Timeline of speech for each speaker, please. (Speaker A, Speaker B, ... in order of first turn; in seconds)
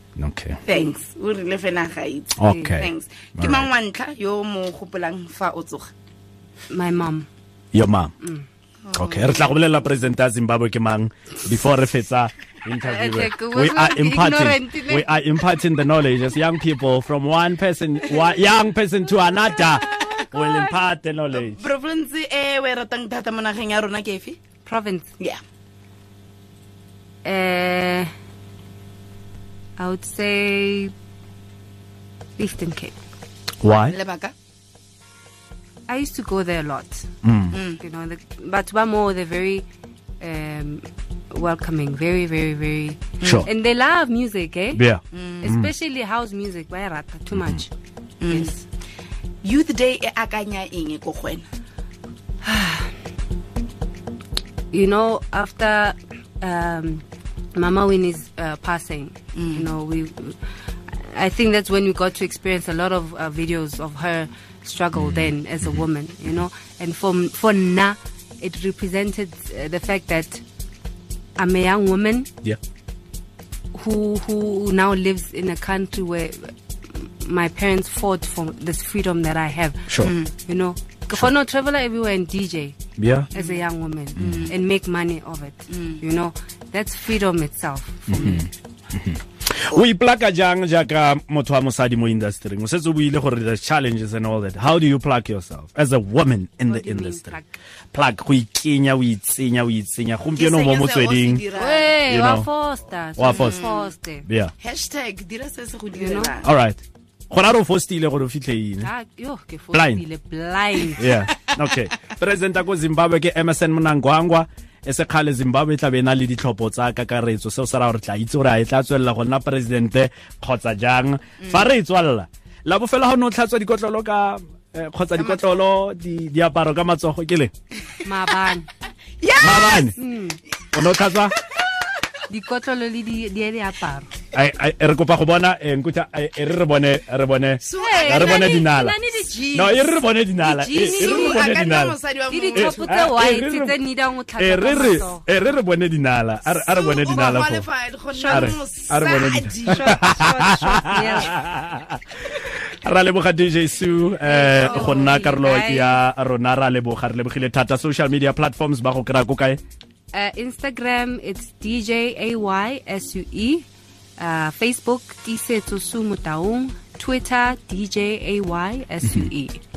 Speaker A: 0.1-0.6, 2.4-3.7, 7.7-8.1, 8.9-21.6, 33.6-34.0, 37.2-37.6, 43.2-43.5, 44.7-45.7, 47.3-47.6, 64.9-65.8, 79.9-80.1, 83.0-83.3, 84.2-84.5, 88.1-97.4, 97.9-101.5, 102.0-102.5, 103.2-103.7, 104.2-104.5, 106.4-108.9, 109.7-110.0, 111.0-127.5, 129.4-129.9, 130.7-131.3, 134.3-139.0, 139.5-142.0, 142.5-143.8, 144.4-147.7, 148.3-159.6, 169.0-169.3
Speaker B: 0.7-5.9, 8.8-9.5, 19.8-20.2, 21.3-24.4, 33.9-34.3, 37.5-37.8, 43.2-43.5, 45.1-45.5, 48.2-48.5, 49.4-51.4, 59.3-59.6, 80.0-80.3, 83.3-83.6, 84.2-84.5, 85.7-86.0, 100.3-102.0, 103.2-103.9, 104.6-106.5, 125.2-125.6, 129.2-129.9, 137.6-138.6, 139.3-139.9, 140.8-143.2, 146.5-150.3, 154.7-155.0
Speaker C: 2.5-2.8, 6.7-7.3, 8.2-8.4, 12.8-15.1, 19.5-20.7, 24.6-25.1, 27.2-28.1, 29.8-30.9, 32.4-33.0, 35.9-37.1, 37.6-39.6, 40.2-44.8, 45.4-47.7, 48.2-48.6, 52.4-52.9, 54.7-60.4, 60.9-70.4, 71.4-72.3, 73.7-82.8, 83.3-88.5, 96.7-97.6, 101.5-104.3, 105.9-106.3, 108.8-111.1, 128.0-128.7, 129.9-130.4, 132.3-134.1, 137.8-139.6, 140.4-141.5, 142.3-145.2, 148.1-148.6, 149.7-151.4, 154.2-156.0, 160.1-163.7, 164.2-169.6